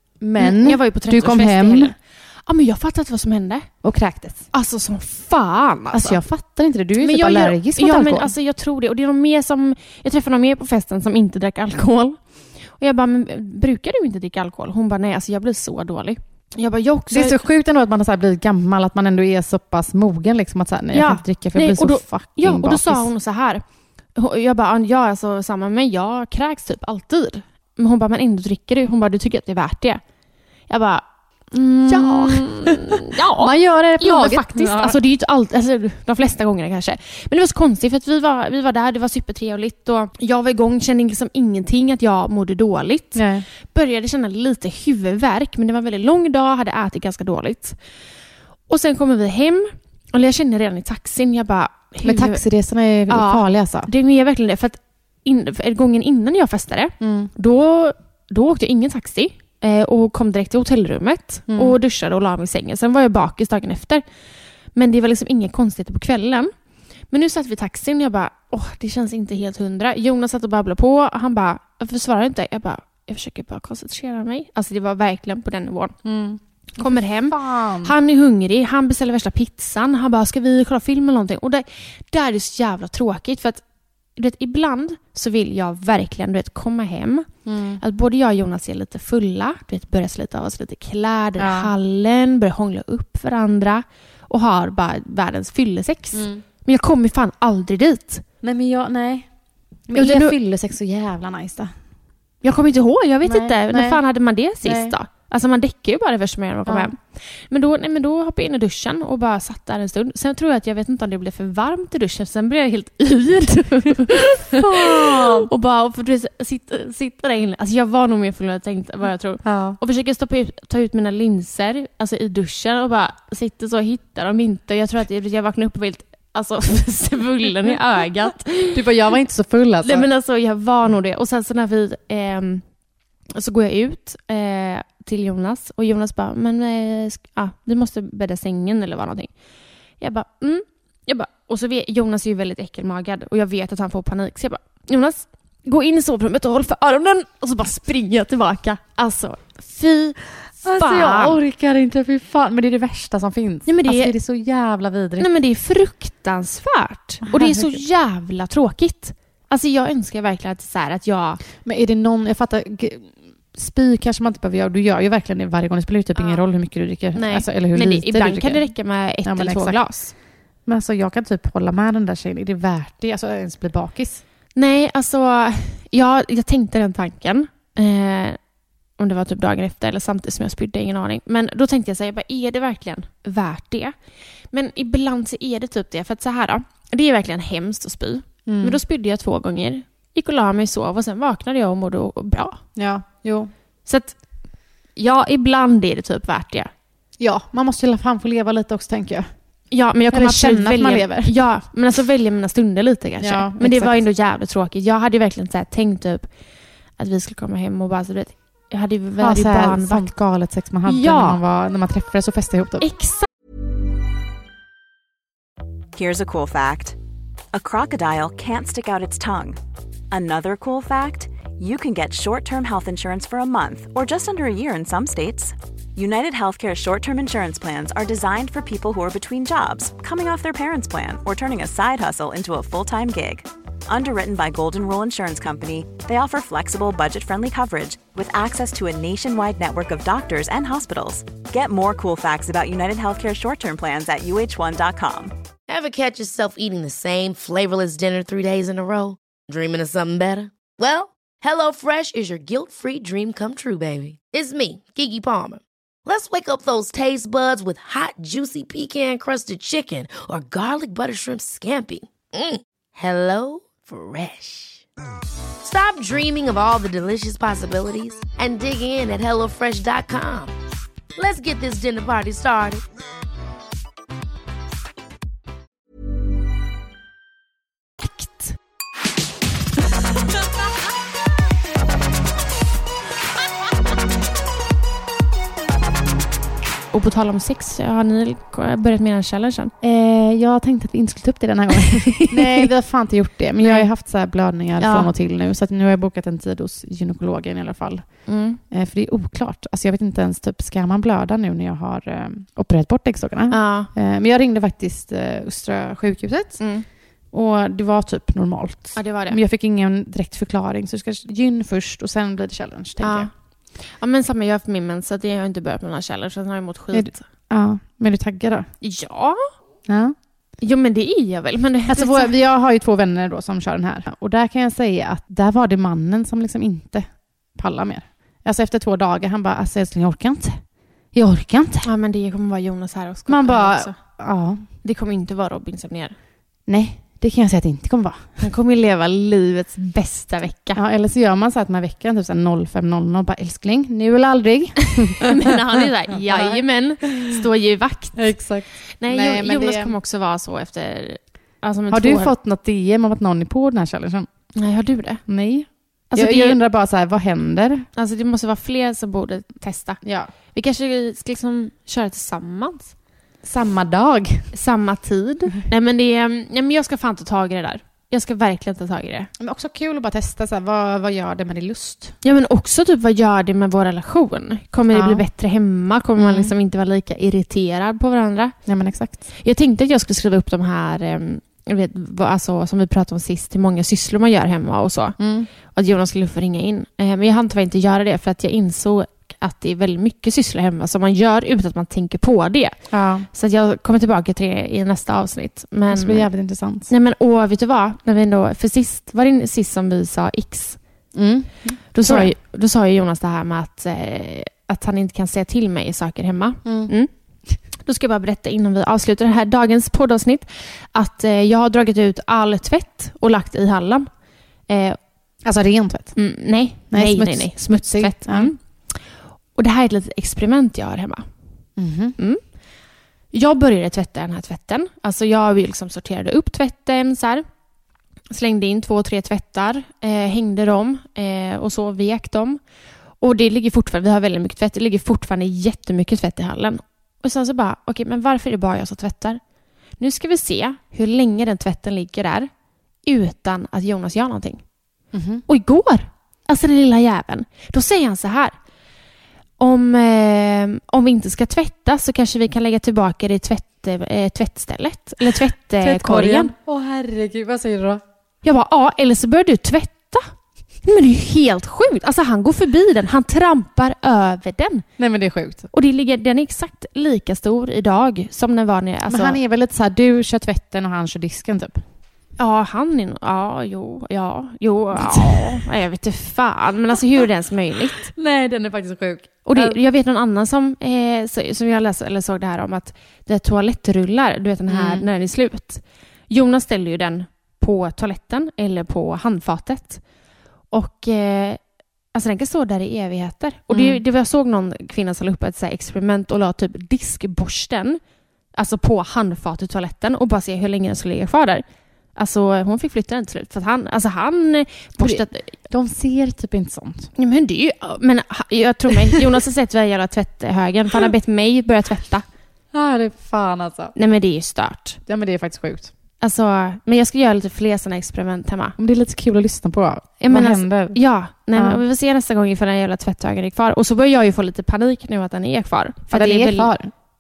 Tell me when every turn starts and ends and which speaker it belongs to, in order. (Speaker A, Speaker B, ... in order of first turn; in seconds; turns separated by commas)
Speaker A: 0.2-1.9, Speaker B: 0.4-3.7, Speaker A: 3.8-4.4, Speaker B: 4.5-6.2, Speaker A: 5.9-8.3, Speaker B: 7.0-12.2, Speaker B: 12.8-17.4, Speaker A: 17.1-23.1, Speaker B: 20.9-23.6, Speaker B: 24.1-30.0, Speaker B: 30.7-31.0, Speaker B: 31.6-47.8, Speaker A: 31.6-35.0, Speaker A: 43.1-43.5, Speaker B: 48.7-52.4, Speaker A: 52.0-53.9, Speaker B: 53.1-64.0, Speaker A: 57.0-57.3, Speaker A: 61.5-61.8, Speaker B: 64.7-66.5, Speaker B: 67.1-75.9, Speaker A: 76.0-77.9, Speaker B: 76.8-83.6, Speaker B: 84.2-87.3, Speaker A: 87.4-87.8, Speaker B: 87.8-98.2, Speaker A: 91.4-91.7, Speaker A: 96.1-96.4, Speaker A: 98.4-99.3, Speaker A: 99.9-101.7, Speaker B: 99.9-100.3, Speaker B: 102.4-128.9, Speaker A: 103.2-104.0, Speaker A: 104.6-104.9, Speaker A: 106.7-106.9, Speaker A: 114.4-115.5, Speaker A: 119.4-119.8, Speaker A: 128.7-130.1, Speaker B: 129.8-132.6, Speaker B: 133.3-139.3, Speaker B: 140.0-151.4, Speaker A: 150.6-155.3, Speaker B: 153.7-154.1, Speaker B: 155.2-161.4, Speaker A: 157.2-157.8, Speaker A: 161.6-169.8, Speaker B: 166.2-166.4, Speaker B: 167.1-170.1, Speaker A: 170.7-174.2, Speaker B: 174.5-178.4, Speaker B: 179.0-183.9, Speaker B: 184.5-192.6, Speaker A: 188.4-188.8, Speaker A: 192.8-193.5, Speaker B: 193.8-194.2, Speaker B: 194.9-196.7, Speaker A: 197.2-199.3, Speaker B: 199.7-206.3, Speaker A: 200.1-201.3, Speaker A: 203.2-204.0, Speaker B: 207.0-210.1, Speaker A: 209.2-212.9, Speaker B: 210.8-211.4, Speaker B: 212.8-213.3, Speaker C: 215.9-216.9, Speaker C: 217.5-219.6, Speaker C: 220.1-245.3, Speaker D: 245.7-264.9, Speaker D: 265.6-270.5, Speaker D: 271.1-272.8, Speaker B: 278.0-278.5, Speaker B: 286.9-289.7, Speaker A: 289.8-306.6, Speaker B: 291.8-292.7, Speaker B: 293.6-293.9, Speaker B: 294.8-295.1, Speaker B: 298.3-298.6, Speaker B: 303.5-303.9, Speaker B: 306.6-306.8, Speaker A: 307.3-313.3, Speaker B: 308.9-309.4, Speaker B: 313.0-317.2, Speaker A: 316.9-318.7, Speaker B: 318.8-319.4, Speaker A: 319.9-320.1, Speaker B: 320.6-322.3, Speaker A: 321.9-330.6, Speaker A: 331.1-331.9, Speaker B: 331.8-334.0, Speaker A: 333.3-334.6, Speaker B: 334.8-336.1, Speaker A: 336.7-338.3, Speaker B: 338.4-340.8, Speaker A: 340.7-345.5, Speaker B: 345.2-348.3, Speaker A: 346.1-347.4, Speaker A: 348.1-349.9, Speaker B: 349.0-352.3, Speaker A: 351.9-354.3, Speaker B: 354.6-355.2, Speaker A: 355.3-357.9, Speaker B: 356.1-356.6, Speaker B: 357.9-360.0, Speaker A: 360.0-360.3, Speaker B: 360.5-362.9, Speaker A: 363.4-364.5, Speaker B: 364.5-369.3, Speaker A: 369.4-372.1, Speaker B: 372.2-378.6, Speaker A: 374.9-375.2, Speaker A: 376.2-376.5, Speaker A: 378.6-379.2, Speaker B: 379.4-392.8, Speaker A: 385.2-385.5, Speaker A: 392.9-393.3, Speaker B: 393.3-396.3, Speaker A: 395.9-396.9, Speaker B: 396.9-400.8, Speaker A: 401.1-402.3, Speaker B: 401.9-407.1, Speaker A: 406.6-406.9, Speaker B: 407.8-414.1, Speaker B: 414.7-415.0, Speaker A: 415.4-416.1, Speaker B: 416.1-419.0, Speaker A: 416.9-418.5, Speaker B: 419.5-421.2, Speaker A: 421.8-422.1, Speaker B: 423.3-427.4, Speaker B: 428.3-432.6, Speaker B: 433.2-439.4, Speaker B: 440.0-442.5, Speaker B: 443.0-444.6, Speaker A: 445.1-445.4, Speaker B: 445.5-448.5, Speaker B: 449.6-456.5, Speaker A: 455.8-458.0, Speaker B: 458.4-460.3, Speaker B: 460.8-464.9, Speaker A: 465.0-465.7, Speaker B: 465.7-469.4, Speaker A: 469.1-471.8, Speaker B: 472.4-478.1, Speaker A: 474.9-475.5, Speaker A: 478.1-479.8, Speaker B: 479.4-490.0, Speaker A: 484.7-485.1, Speaker B: 490.7-491.6, Speaker B: 492.1-498.0, Speaker A: 493.7-494.0, Speaker B: 498.5-501.6, Speaker B: 502.1-505.5, Speaker A: 505.0-507.1, Speaker B: 507.2-512.2, Speaker A: 512.7-513.9, Speaker B: 514.0-515.0, Speaker A: 515.1-515.9, Speaker B: 516.2-518.8, Speaker A: 518.8-521.0, Speaker B: 520.2-526.7, Speaker A: 521.5-521.8, Speaker A: 526.1-526.9